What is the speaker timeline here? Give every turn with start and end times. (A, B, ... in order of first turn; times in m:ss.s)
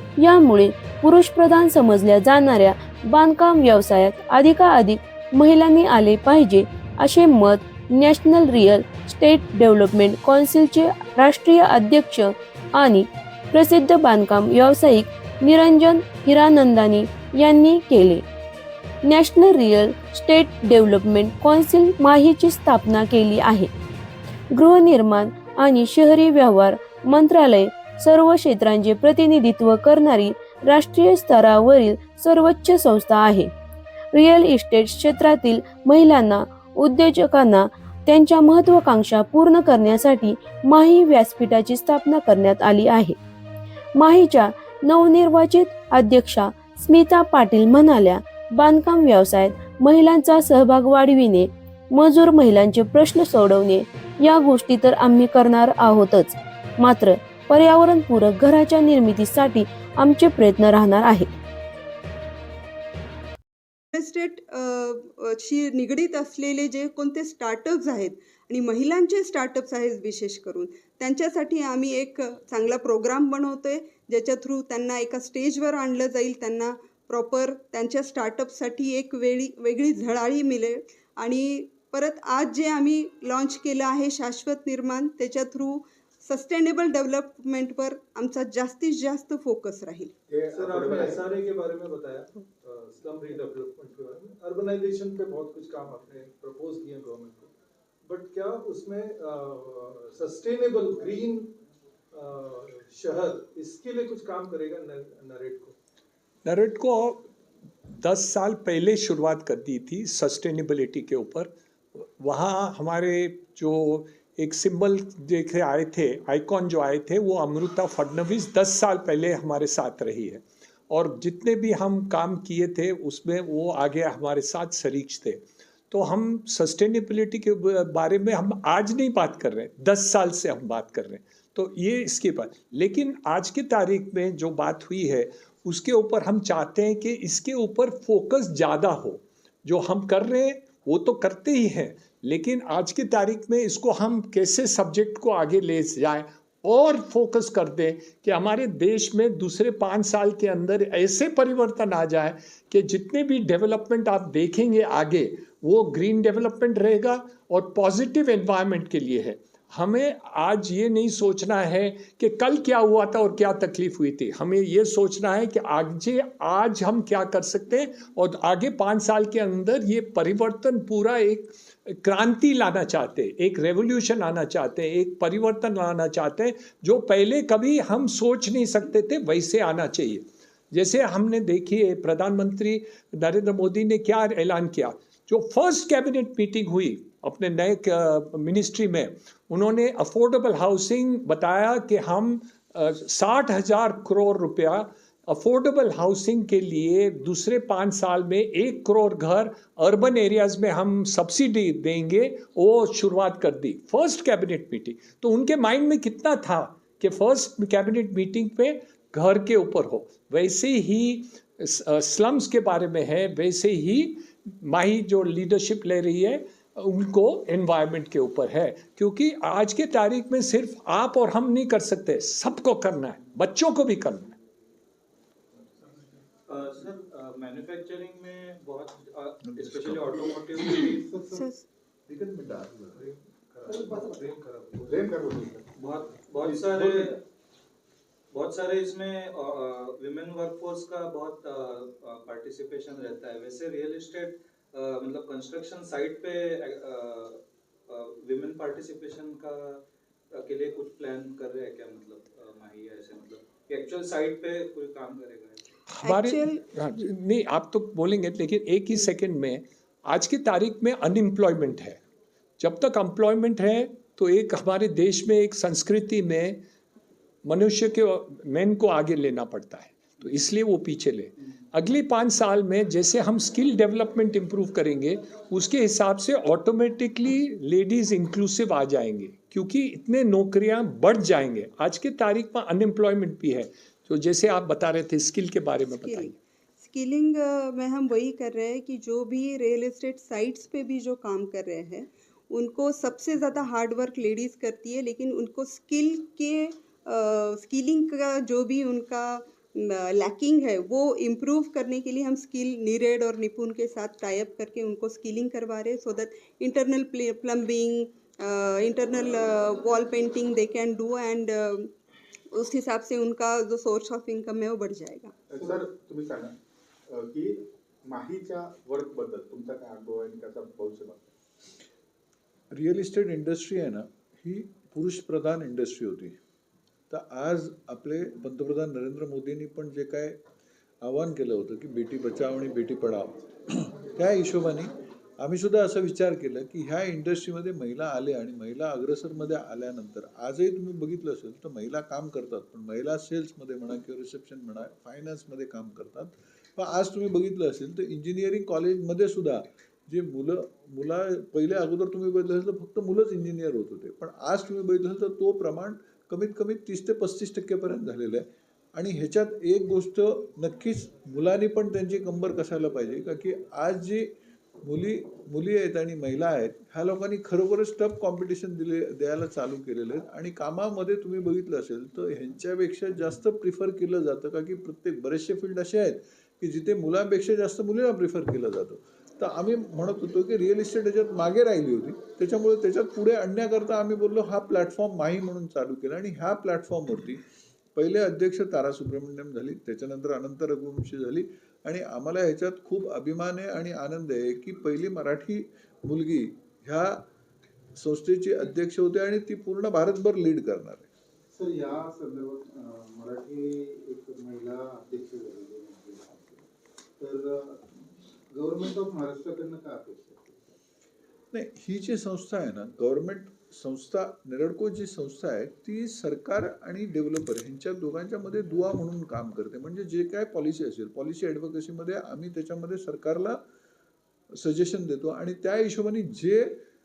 0:00.2-0:18.2 A
0:19.1-0:23.7 A
0:24.5-0:33.5 A
0:34.1-0:43.2 A
0:44.0-1:01.3 A
1:03.9-1:30.1 B
1:30.3-1:31.4 C
1:30.5-1:37.5 D
1:38.1-1:41.5 D
1:42.1-1:45.8 D
1:46.4-1:47.3 E
1:48.0-3:44.4 E
3:46.5-3:51.2 F
3:49.4-3:50.3 G
3:51.1-3:51.4 C
3:51.3-3:51.6 B
3:52.1-3:53.1 G
3:53.0-3:55.0 D
3:53.7-3:54.3 C
3:54.8-3:55.7 C
3:55.7-3:57.2 F
3:56.4-3:56.8 C
3:56.8-3:57.1 D
3:58.3-4:15.8 F
4:16.0-4:22.0 E
4:16.0-4:17.1 B
4:22.6-4:26.6 E
4:27.4-4:46.4 E
4:45.9-5:11.9 B
5:12.5-5:15.3 B
5:15.5-5:16.5 C
5:17.1-5:21.3 C
5:22.7-5:26.4 G
5:27.1-5:30.4 G
5:31.0-6:04.3 G
6:04.8-6:27.4 G
6:28.0-6:37.2 G
6:38.0-6:41.1 G
6:41.5-6:46.6 C
6:47.2-6:50.8 C
6:51.5-7:03.6 G
7:04.6-7:06.8 G